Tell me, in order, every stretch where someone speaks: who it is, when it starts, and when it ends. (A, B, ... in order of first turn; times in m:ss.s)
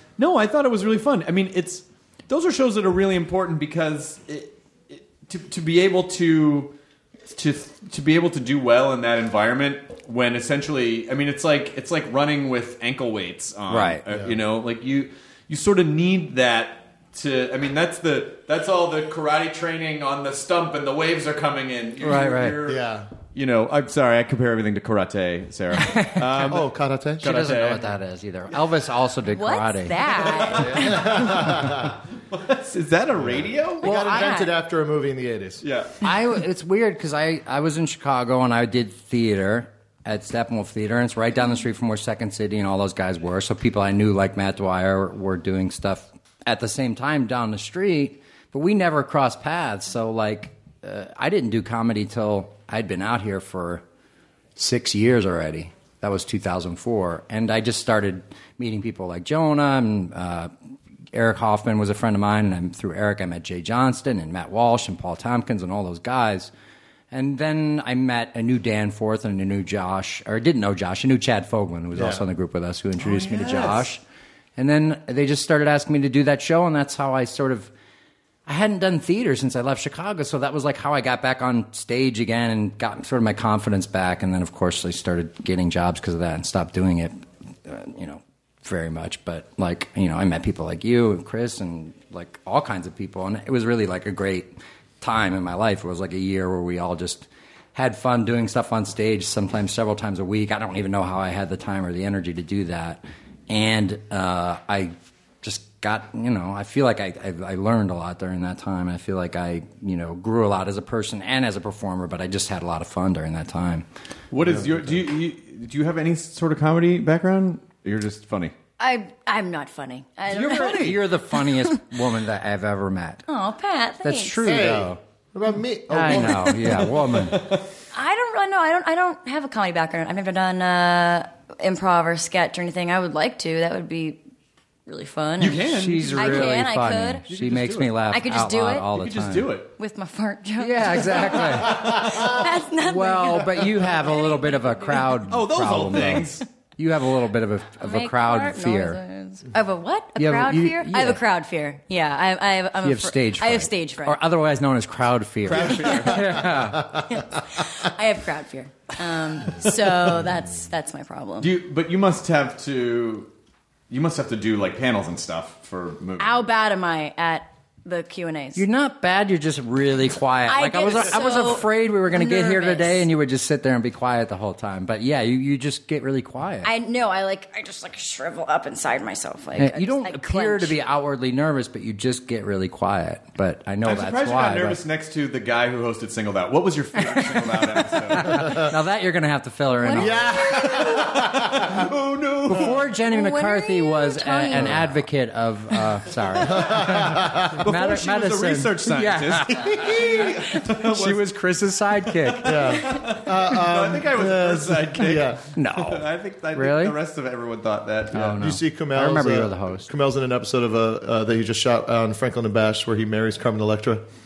0:00.2-0:06.8 A
0:07.3-0:27.8 A
0:13.7-0:14.0 B
0:14.1-0:14.4 C
0:22.0-0:22.6 B
0:22.6-0:23.1 C
0:25.8-0:26.5 B
0:26.5-0:27.2 C
0:27.2-0:30.5 B
0:29.3-0:31.2 D
0:30.1-0:31.7 A
0:30.6-0:32.0 C
0:32.3-0:33.8 A
0:33.2-0:35.6 C
0:33.8-0:34.5 D
0:35.6-0:36.0 A
0:36.0-0:53.8 B
0:54.6-1:00.5 B
1:01.1-1:06.5 B
1:07.1-1:14.0 B
1:12.0-1:12.2 C
1:13.0-1:13.9 A
1:14.6-1:17.7 B
1:18.5-1:27.1 B
1:27.6-1:53.9 B
1:54.3-1:58.5 A
1:54.4-1:55.0 C
1:58.8-2:00.9 D
2:00.3-2:01.0 A
2:00.3-2:03.2 B
2:03.3-2:04.6 D
2:04.0-2:05.0 B
2:04.4-2:06.8 C
2:05.9-2:07.5 B
2:07.1-2:07.6 A
2:07.9-2:14.2 D
2:14.9-2:17.2 D
2:15.4-2:16.6 A
2:15.6-2:19.5 B
2:17.3-2:18.0 A
2:18.1-2:18.9 D
2:18.9-2:19.7 A
2:19.8-2:25.2 D
2:20.6-2:22.3 B
2:22.8-2:29.0 B
2:25.3-2:26.4 A
2:27.8-2:34.2 D
2:30.2-2:31.2 B
2:32.8-2:37.0 B
2:35.5-2:36.5 A
2:37.1-2:41.5 D
2:41.4-2:43.3 A
2:43.9-2:46.5 A
2:46.2-2:48.6 D
2:48.6-2:56.7 B
2:50.5-2:53.0 D
2:56.6-3:00.8 D
2:59.6-3:04.8 B
3:03.8-3:08.6 A
3:07.0-3:10.2 B
3:08.3-3:08.7 C
3:09.8-3:10.9 D
3:10.0-3:11.9 C
3:10.5-3:12.8 A
3:12.5-3:22.8 B
3:13.1-3:14.8 D
3:16.4-3:17.6 C
3:17.6-3:21.3 A
3:22.0-3:28.4 A
3:22.4-3:25.4 C
3:25.6-3:27.0 B
3:28.1-3:29.9 B
3:28.4-3:34.0 C